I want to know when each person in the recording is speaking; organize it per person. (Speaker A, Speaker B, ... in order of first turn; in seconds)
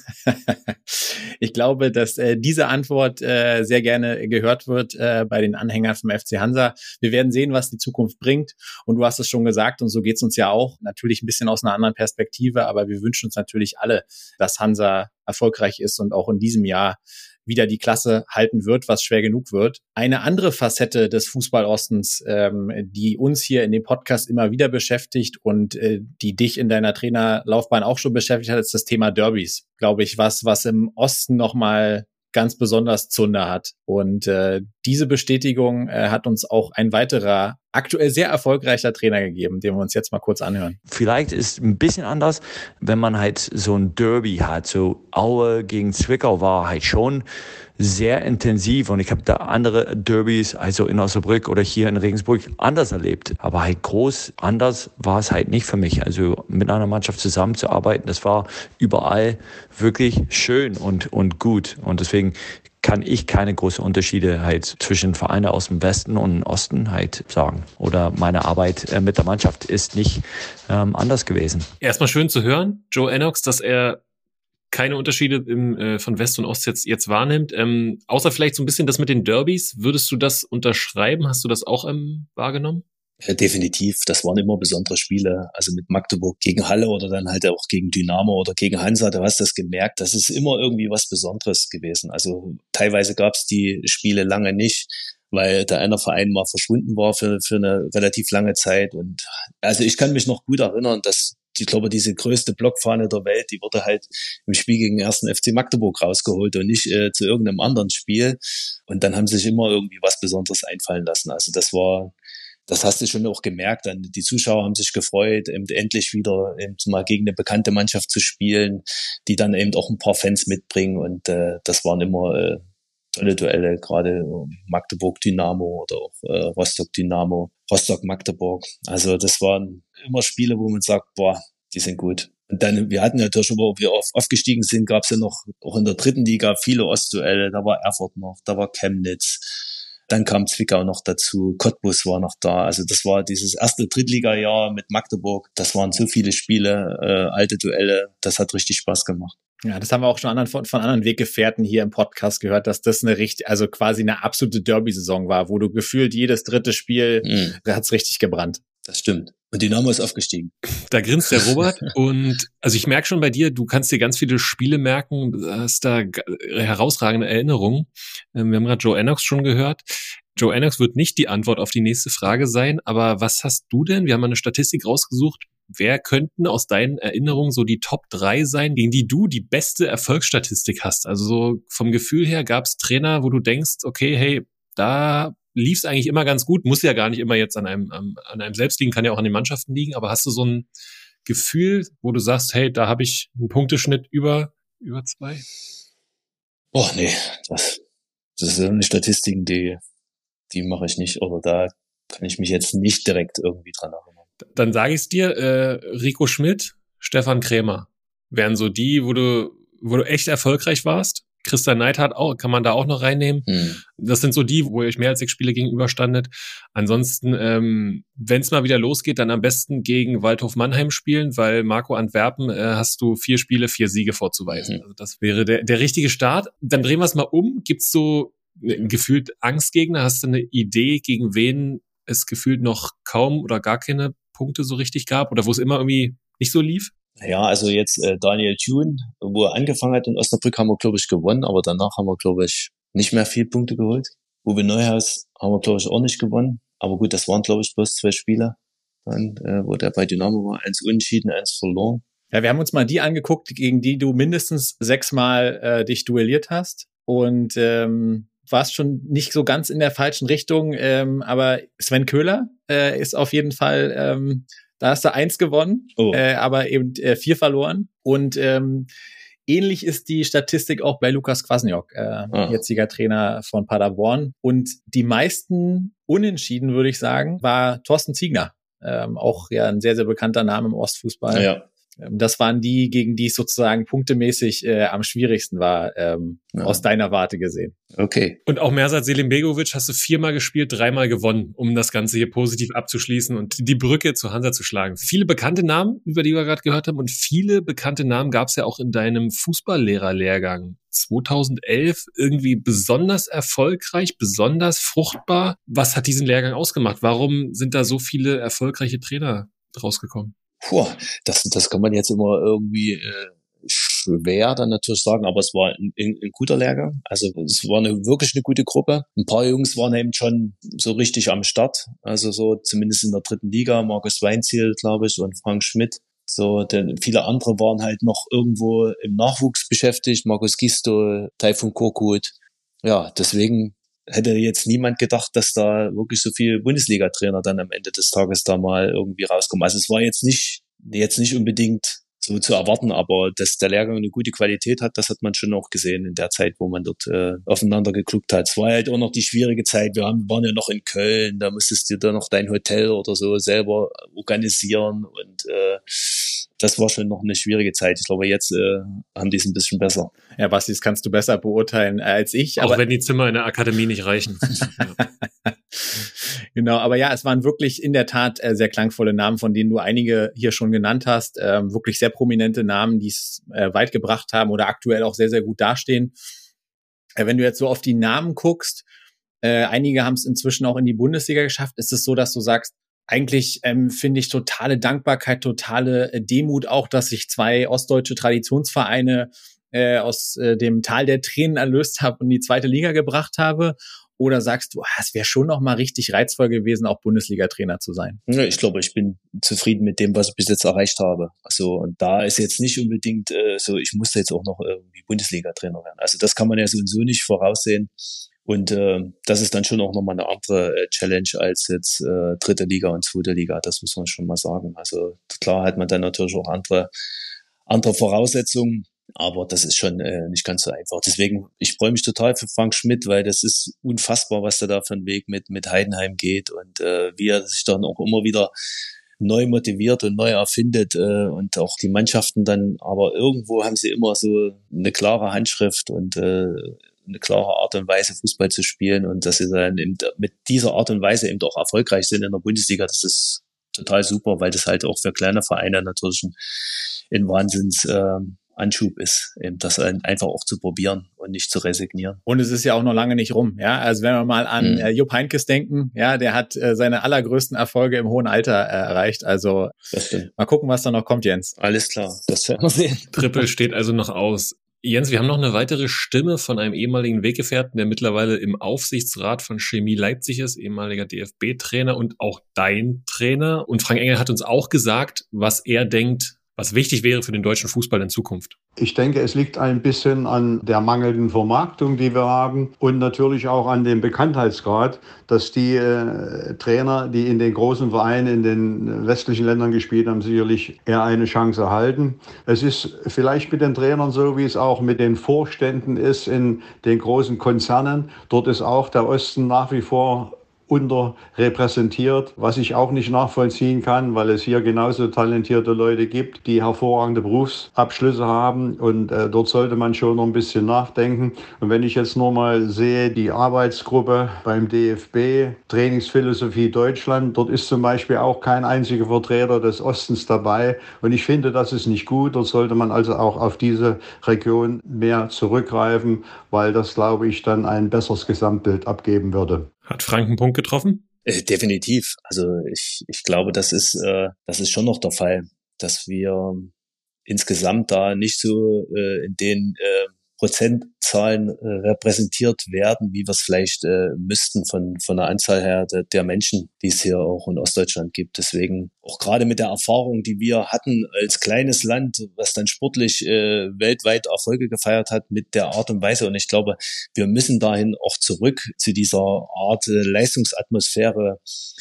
Speaker A: 0.3-40.8, 149.6-158.6, 252.3-268.9, 269.5-281.5, 282.0-287.8, 360.4-362.8, 365.0-376.1, 377.2-378.8, 379.4-398.2, 452.3-459.7, 460.4-461.6
Speaker B: 40.9-47.2, 47.8-71.7
Speaker C: 71.8-74.0, 74.7-82.8, 160.9-190.7, 191.2-195.4, 204.5-236.9, 288.5-310.3, 362.6-364.9, 463.1-478.6, 529.9-531.0
Speaker D: 83.2-112.1, 112.7-122.6, 123.1-149.3, 157.2-157.6, 158.8-160.5, 196.7-197.8, 198.4-199.8, 200.5-204.2, 213.5-213.8, 224.5-224.8, 237.2-252.0, 266.0-266.2, 272.3-272.6, 281.3-281.7, 286.5-286.8, 287.9-288.4, 310.6-360.1, 398.3-407.9, 408.4-416.9, 417.7-428.5, 429.2-446.3, 447.1-452.2, 454.6-454.9, 459.9-460.3, 461.6-463.5, 531.3-536.7, 537.3-561.4
Speaker E: 478.8-529.7